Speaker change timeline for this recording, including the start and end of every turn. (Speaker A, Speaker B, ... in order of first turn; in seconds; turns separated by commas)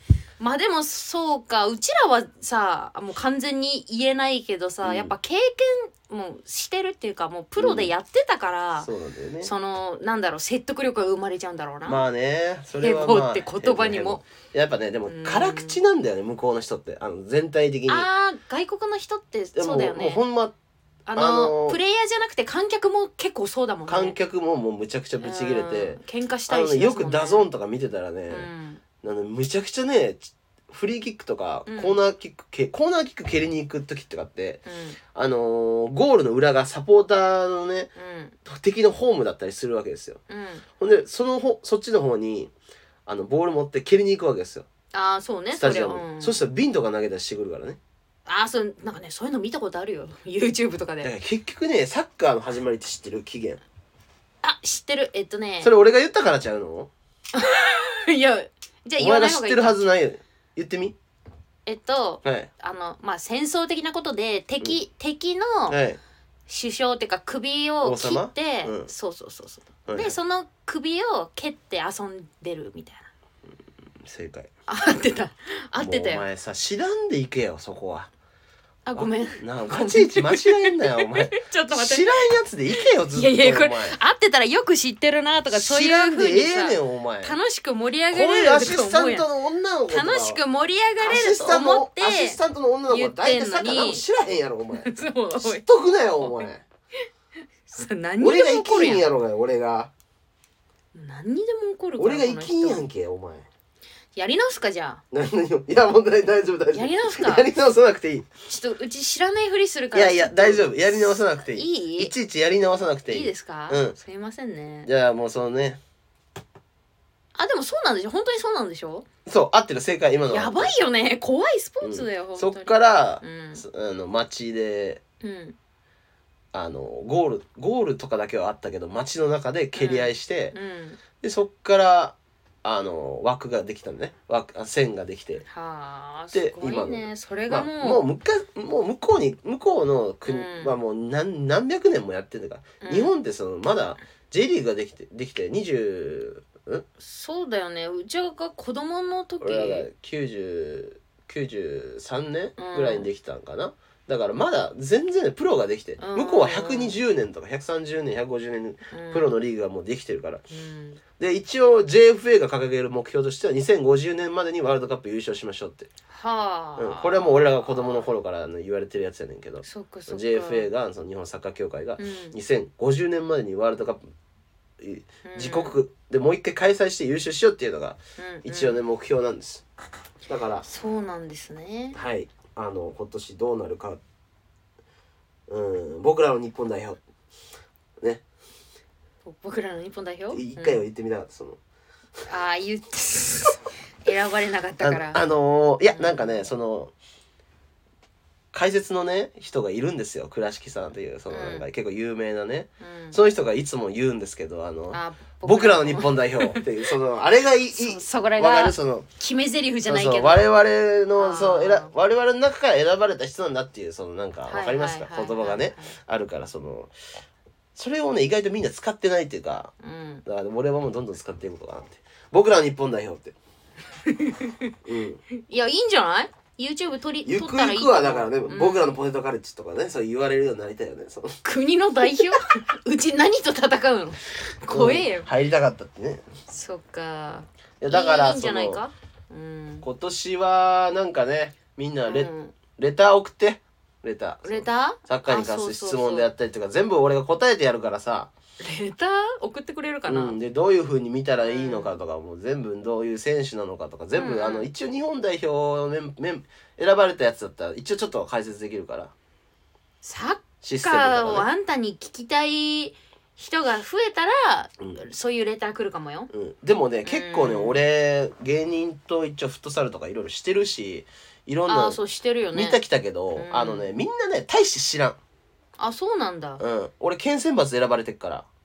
Speaker A: 0.4-8.9, Speaker B: 4.8-5.1, Speaker B: 7.6-7.9, Speaker B: 8.8-9.5, Speaker A: 9.4-12.0, Speaker B: 11.9-18.1, Speaker A: 12.8-14.2, Speaker A: 15.1-15.8, Speaker A: 17.9-20.2, Speaker B: 19.6-20.5, Speaker A: 21.1-24.2, Speaker B: 21.1-21.8, Speaker B: 23.9-28.5, Speaker A: 25.2-27.5, Speaker A: 28.3-28.8, Speaker B: 29.0-34.6, Speaker A: 31.7-32.0, Speaker A: 34.7-35.0, Speaker B: 35.1-37.9, Speaker A: 38.0-38.4, Speaker B: 38.5-40.2, Speaker A: 40.3-40.6, Speaker B: 40.8-42.5, Speaker B: 43.1-44.7, Speaker A: 44.9-46.5, Speaker B: 45.5-47.8, Speaker A: 48.3-51.1, Speaker B: 51.0-53.6, Speaker A: 54.4-55.7, Speaker B: 55.6-56.9, Speaker A: 57.3-59.9, Speaker B: 59.0-61.0, Speaker A: 61.7-65.8, Speaker B: 62.2-62.5, Speaker B: 65.7-66.0, Speaker A: 66.5-73.1, Speaker B: 67.8-68.9, Speaker B: 69.9-70.2, Speaker B: 74.0-74.5, Speaker A: 74.7-76.2, Speaker B: 75.8-78.1, Speaker A: 78.9-89.3, Speaker B: 79.0-84.0, Speaker B: 85.5-87.4, Speaker B: 88.1-90.4, Speaker A: 89.9-94.0, Speaker B: 91.0-96.7, Speaker A: 94.8-95.7, Speaker A: 96.2-96.5, Speaker A: 97.7-99.1, Speaker B: 98.2-99.9, Speaker A: 100.9-102.8, Speaker B: 102.0-103.5, Speaker A: 104.2-105.0, Speaker B: 105.1-108.3, Speaker A: 106.7-107.5, Speaker A: 108.5-112.1, Speaker B: 109.9-114.0, Speaker A: 113.1-114.9, Speaker B: 114.8-115.8, Speaker A: 117.3-119.1, Speaker B: 119.3-120.7, Speaker A: 120.3-123.6, Speaker B: 121.8-125.0, Speaker A: 125.2-125.6, Speaker B: 126.5-130.6, Speaker A: 129.8-131.0, Speaker B: 131.2-135.4, Speaker A: 135.5-138.0, Speaker B: 136.3-146.9, Speaker A: 140.2-140.8, Speaker A: 142.8-143.1, Speaker A: 147.0-149.9, Speaker B: 149.4-160.4, Speaker A: 152.6-153.1, Speaker A: 156.0-157.0, Speaker A: 158.9-159.4, Speaker A: 160.5-161.0, Speaker B: 161.2-165.9, Speaker A: 166.1-168.1, Speaker B: 166.8-174.0, Speaker A: 169.6-170.7, Speaker A: 172.0-172.4, Speaker B: 174.8-179.6, Speaker A: 175.2-175.8, Speaker A: 178.2-178.8, Speaker B: 180.3-180.7, Speaker A: 180.7-182.0, Speaker B: 181.9-184.0, Speaker B: 185.5-187.0, Speaker A: 189.2-190.8, Speaker B: 190.3-191.6, Speaker A: 192.3-195.2, Speaker B: 194.8-196.9, Speaker A: 195.9-196.5, Speaker B: 198.5-209.1, Speaker A: 201.3-201.7, Speaker A: 202.8-203.2, Speaker A: 204.9-206.9, Speaker A: 207.7-210.4, Speaker B: 209.9-216.9, Speaker A: 211.2-211.9, Speaker A: 214.5-216.0, Speaker B: 217.8-219.7, Speaker A: 219.8-220.2, Speaker B: 220.3-223.3, Speaker A: 224.1-224.7, Speaker B: 224.8-225.2, Speaker A: 225.3-229.0, Speaker B: 227.3-231.4, Speaker A: 231.4-235.3, Speaker B: 234.7-236.2, Speaker A: 236.5-239.9, Speaker B: 237.8-238.8, Speaker B: 239.8-248.3, Speaker A: 242.1-242.6, Speaker A: 244.4-246.3, Speaker A: 248.6-250.4, Speaker B: 250.1-259.1, Speaker A: 251.4-251.9, Speaker A: 254.1-254.7, Speaker A: 260.0-266.3, Speaker B: 260.6-261.5, Speaker B: 266.3-272.0, Speaker A: 267.1-267.8, Speaker A: 271.7-272.8, Speaker B: 272.5-275.2, Speaker A: 273.4-273.9, Speaker A: 275.8-276.6, Speaker B: 276.6-278.5